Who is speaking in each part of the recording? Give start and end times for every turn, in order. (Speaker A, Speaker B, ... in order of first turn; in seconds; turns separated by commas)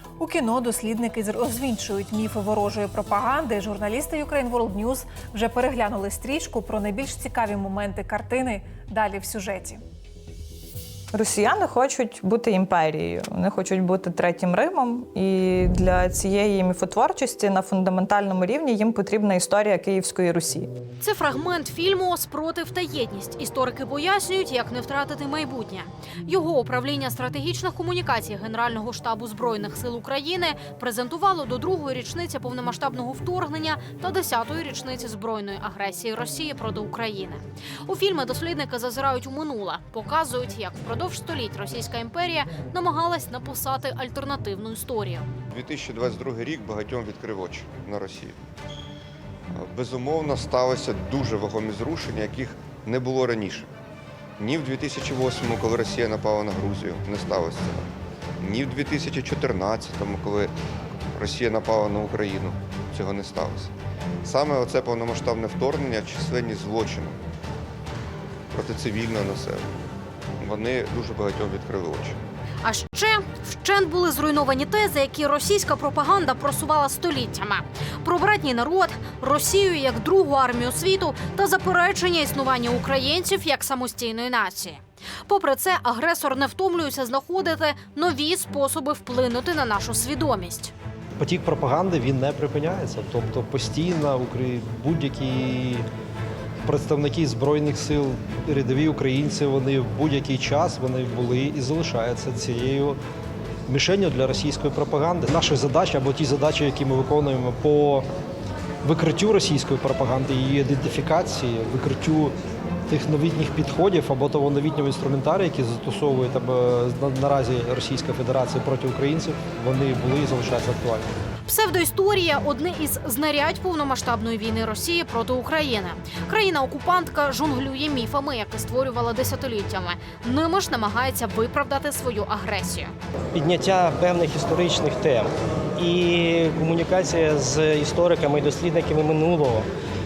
Speaker A: 0.2-9.8, Speaker B: 11.1-20.7, Speaker C: 21.0-45.3, Speaker D: 45.5-48.4, Speaker D: 49.5-53.7, Speaker D: 54.4-57.9, Speaker D: 58.4-60.5, Speaker D: 61.1-63.7, Speaker D: 64.2-67.2, Speaker D: 68.5-69.7, Speaker D: 70.4-72.2, Speaker C: 72.6-90.7, Speaker E: 91.2-95.8, Speaker E: 96.6-103.0, Speaker E: 103.7-108.0, Speaker E: 108.8-112.3, Speaker E: 112.9-121.1, Speaker C: 121.4-132.9, Speaker F: 133.3-139.7